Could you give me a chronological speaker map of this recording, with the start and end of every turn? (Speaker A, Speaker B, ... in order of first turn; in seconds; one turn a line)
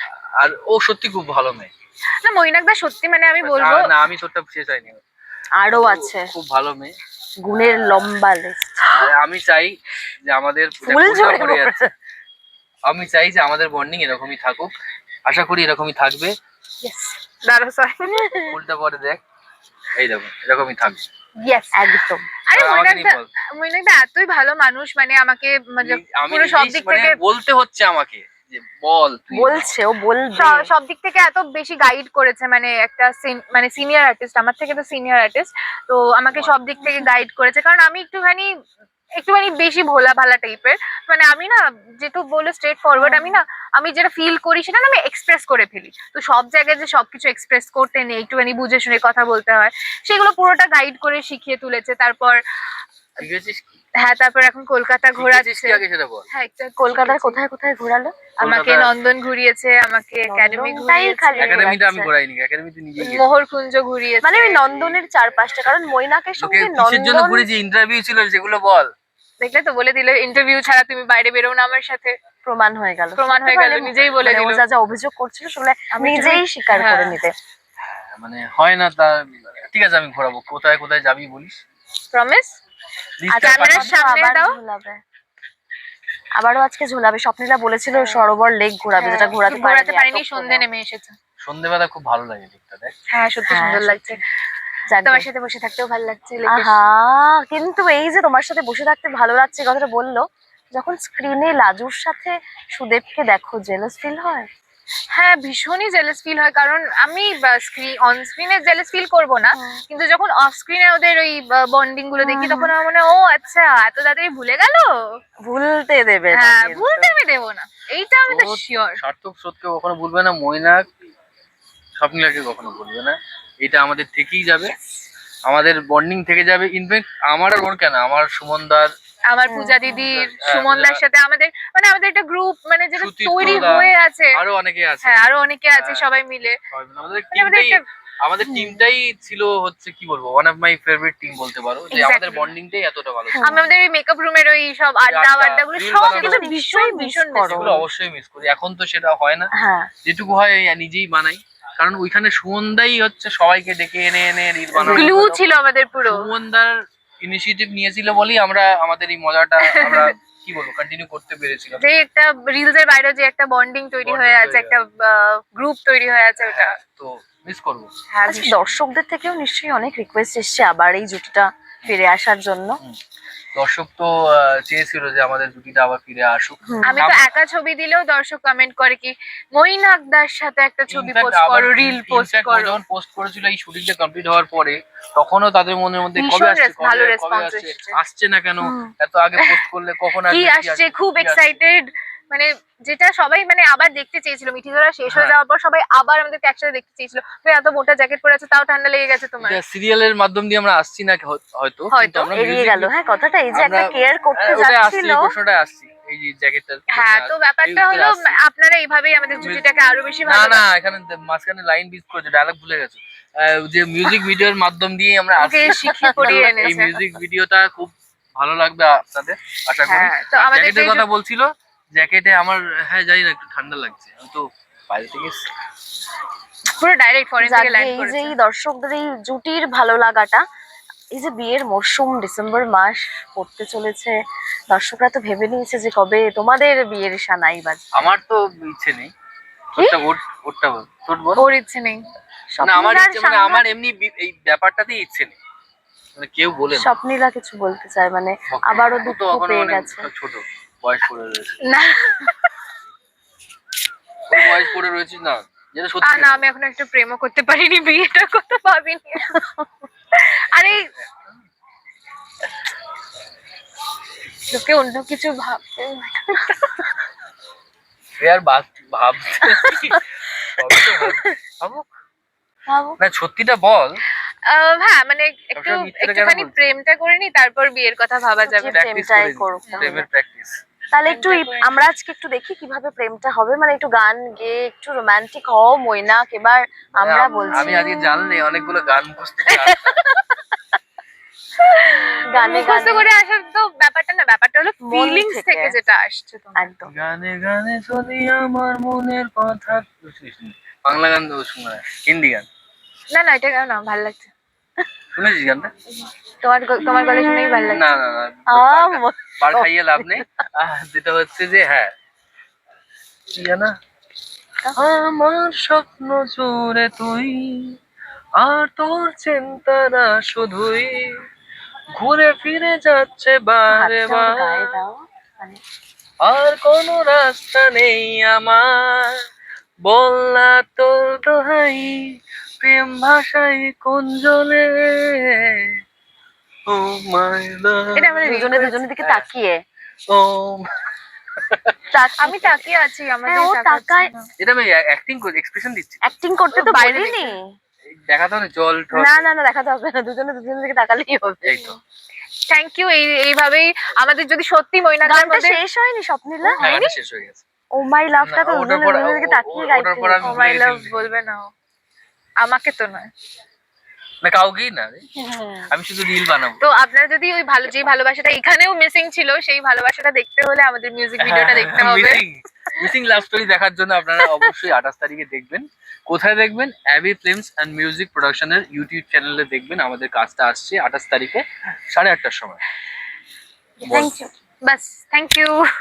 Speaker A: 0.4-1.7
Speaker B: 2.2-4.0
Speaker A: 3.4-5.0
Speaker C: 5.6-6.3
Speaker A: 5.7-6.9
Speaker C: 7.4-9.1
Speaker A: 8.9-9.8
Speaker A: 10.3-11.9
Speaker C: 10.8-11.9
Speaker A: 12.9-14.7
Speaker A: 15.3-16.3
Speaker B: 16.8-18.6
Speaker A: 18.3-19.2
Speaker A: 20.0-21.1
Speaker B: 21.4-21.9
Speaker C: 21.8-22.3
Speaker B: 22.5-27.2
Speaker A: 22.5-23.3
Speaker A: 25.8-29.8
Speaker C: 29.3-30.7
Speaker B: 30.3-38.5
Speaker C: 36.8-37.1
Speaker B: 39.2-52.4
Speaker C: 43.0-43.4
Speaker A: 53.2-53.6
Speaker B: 54.0-57.4
Speaker A: 55.1-56.3
Speaker C: 56.8-58.3
Speaker A: 58.4-58.9
Speaker B: 58.4-61.8
Speaker C: 60.3-62.1
Speaker A: 61.4-63.3
Speaker B: 63.0-64.7
Speaker C: 64.2-67.5
Speaker A: 64.7-65.0
Speaker A: 66.4-68.9
Speaker B: 69.4-72.1
Speaker C: 72.5-77.3
Speaker B: 73.2-74.6
Speaker B: 75.9-77.2
Speaker A: 78.2-81.6
Speaker B: 82.1-82.5
Speaker A: 83.2-84.0
Speaker C: 83.3-85.0
Speaker B: 83.3-84.6
Speaker C: 86.4-90.7
Speaker B: 87.9-88.3
Speaker B: 89.0-91.2
Speaker A: 91.4-93.0
Speaker B: 93.1-94.2
Speaker C: 93.5-94.2
Speaker C: 94.9-95.3
Speaker B: 95.0-96.8
Speaker C: 96.5-104.5
Speaker B: 105.1-115.2
Speaker C: 109.5-109.8
Speaker C: 112.2-112.7
Speaker C: 115.5-117.2
Speaker B: 116.3-119.0
Speaker A: 118.3-120.8
Speaker A: 122.0-124.8
Speaker A: 125.5-128.9
Speaker B: 129.3-134.4
Speaker C: 129.5-130.0
Speaker A: 129.9-131.0
Speaker A: 133.0-136.1
Speaker B: 135.0-136.6
Speaker A: 136.7-143.5
Speaker B: 137.3-137.8
Speaker C: 138.5-138.8
Speaker B: 141.9-142.5
Speaker C: 143.3-143.7
Speaker B: 143.4-147.7
Speaker A: 145.1-146.5
Speaker C: 146.1-147.9
Speaker A: 147.5-149.5
Speaker C: 149.5-149.9
Speaker A: 150.1-155.4
Speaker C: 154.7-155.4
Speaker B: 154.9-156.3
Speaker A: 156.0-161.8
Speaker B: 159.6-160.2
Speaker B: 161.8-166.8
Speaker A: 164.1-164.8
Speaker A: 166.4-167.9
Speaker B: 168.1-168.6
Speaker C: 168.3-172.8
Speaker A: 173.6-177.3
Speaker C: 176.7-177.0
Speaker B: 176.8-182.8
Speaker A: 180.9-191.6
Speaker B: 186.2-188.0
Speaker C: 188.6-188.9
Speaker B: 190.3-199.6
Speaker A: 195.1-195.3
Speaker A: 199.4-202.9
Speaker B: 201.9-202.3
Speaker C: 202.3-205.3
Speaker A: 203.5-208.4
Speaker B: 206.9-210.7
Speaker A: 209.4-209.7
Speaker A: 210.2-225.4
Speaker B: 215.4-217.0
Speaker C: 216.3-216.5
Speaker B: 219.9-221.1
Speaker B: 226.8-228.3
Speaker C: 227.4-230.4
Speaker C: 231.1-234.2
Speaker C: 234.7-238.1
Speaker A: 237.9-239.1
Speaker A: 239.7-241.5
Speaker B: 241.4-242.0
Speaker C: 242.5-243.7
Speaker A: 242.6-245.4
Speaker A: 246.2-246.9
Speaker C: 246.7-250.1
Speaker A: 248.5-251.6
Speaker B: 251.6-252.5
Speaker A: 254.3-256.4
Speaker B: 256.0-259.5
Speaker B: 260.1-260.9
Speaker B: 264.5-266.8
Speaker A: 268.2-271.9
Speaker C: 272.7-273.0
Speaker A: 273.0-274.0
Speaker B: 274.5-278.9
Speaker A: 275.5-276.6
Speaker C: 278.5-280.1
Speaker A: 278.7-280.6
Speaker B: 279.7-279.9
Speaker C: 280.9-287.9
Speaker B: 281.1-281.8
Speaker A: 287.0-290.2
Speaker B: 289.5-290.2
Speaker B: 291.6-296.7
Speaker C: 292.3-293.1
Speaker C: 294.8-295.8
Speaker C: 296.6-296.9
Speaker A: 296.9-302.5
Speaker B: 303.1-304.3
Speaker A: 305.1-305.7
Speaker B: 306.4-307.9
Speaker A: 307.6-311.9
Speaker C: 308.5-310.3
Speaker A: 313.3-313.7
Speaker A: 314.8-317.7
Speaker A: 318.4-321.1
Speaker A: 322.0-324.8
Speaker C: 323.7-325.6
Speaker A: 326.2-329.2
Speaker A: 329.9-332.0
Speaker A: 332.6-335.7
Speaker A: 336.7-338.3
Speaker B: 338.0-338.8
Speaker C: 338.3-339.6
Speaker A: 339.0-339.3
Speaker A: 340.1-340.7
Speaker A: 341.4-341.8
Speaker C: 341.9-342.7
Speaker B: 342.2-344.3
Speaker C: 343.3-344.1
Speaker A: 344.4-346.2
Speaker C: 346.0-347.5
Speaker B: 346.5-347.4
Speaker A: 347.9-349.2
Speaker C: 348.9-351.7
Speaker A: 351.4-351.8
Speaker B: 352.5-355.6
Speaker C: 355.1-356.7
Speaker B: 356.5-357.0
Speaker A: 356.6-357.4
Speaker C: 357.7-360.4
Speaker A: 358.2-360.9
Speaker B: 360.2-361.5
Speaker B: 362.4-363.1
Speaker A: 364.2-365.0
Speaker A: 365.7-366.6
Speaker B: 366.6-372.2
Speaker A: 371.2-382.6
Speaker B: 383.8-385.7
Speaker A: 383.8-384.2
Speaker C: 383.9-384.3